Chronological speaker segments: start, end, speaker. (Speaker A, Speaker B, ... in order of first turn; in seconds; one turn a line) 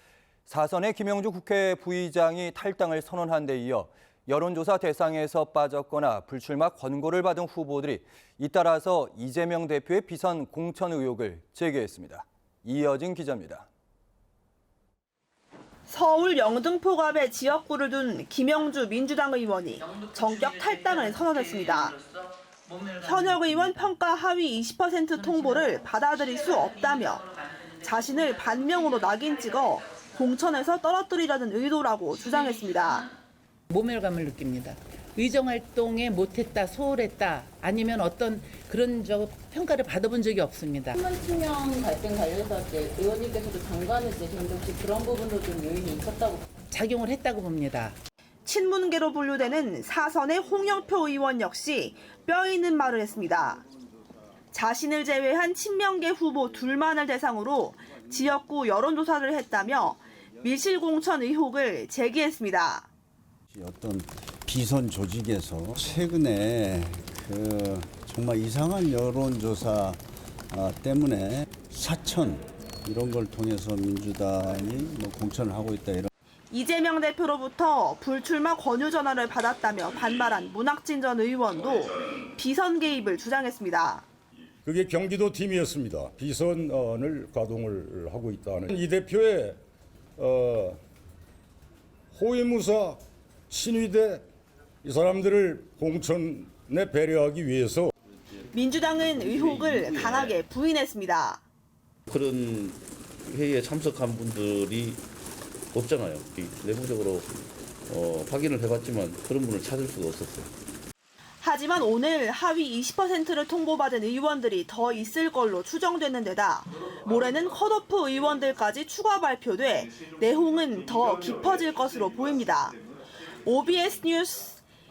Speaker A: 0.5-13.7
Speaker B: 15.9-22.0
Speaker B: 23.0-27.2
Speaker B: 27.8-33.1
Speaker C: 33.7-41.0
Speaker D: 41.0-46.4
Speaker C: 46.7-48.0
Speaker B: 48.5-53.6
Speaker B: 54.5-62.9
Speaker E: 63.5-76.1
Speaker B: 76.5-84.1
Speaker F: 84.7-89.6
Speaker F: 90.2-90.8
Speaker F: 92.2-93.0
Speaker F: 93.5-94.2
Speaker F: 94.9-97.9
Speaker B: 98.5-101.4
Speaker G: 99.0-100.4
Speaker G: 102.1-105.0
Speaker G: 105.7-107.3
Speaker G: 107.9-110.5
Speaker B: 111.4-122.8
Speaker B: 123.4-124.6